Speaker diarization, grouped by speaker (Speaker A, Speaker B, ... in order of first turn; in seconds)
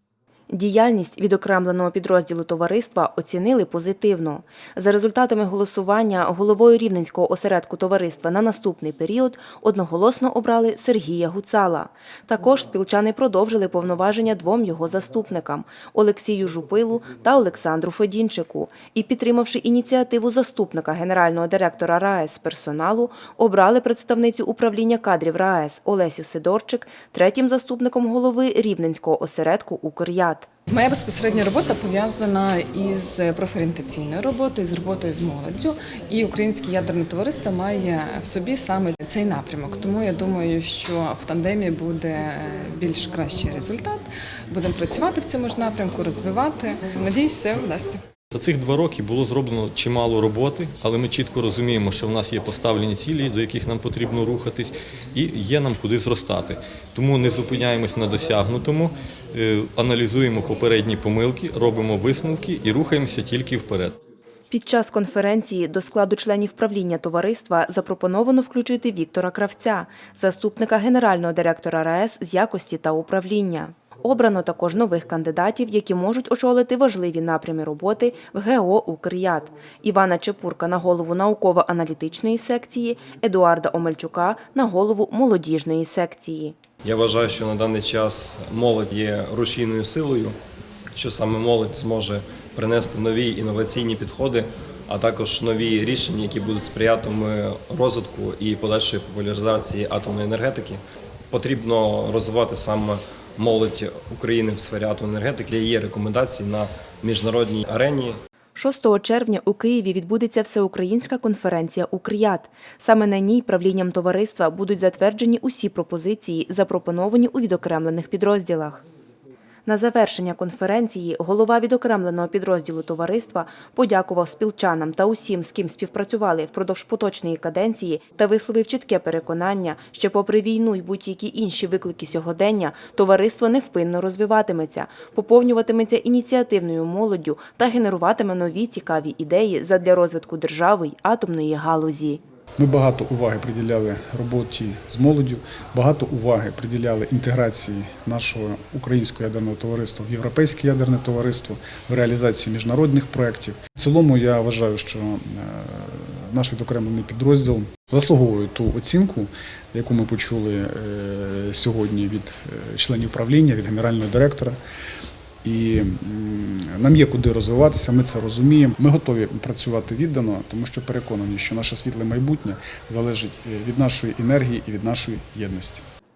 Speaker A: 0.5-30.5, 64.5-86.6, 108.5-118.8, 119.7-142.2
Speaker B: 30.7-48.0
Speaker C: 48.3-64.0
Speaker D: 86.8-90.3, 90.9-108.1
Speaker E: 142.6-164.6, 165.4-175.8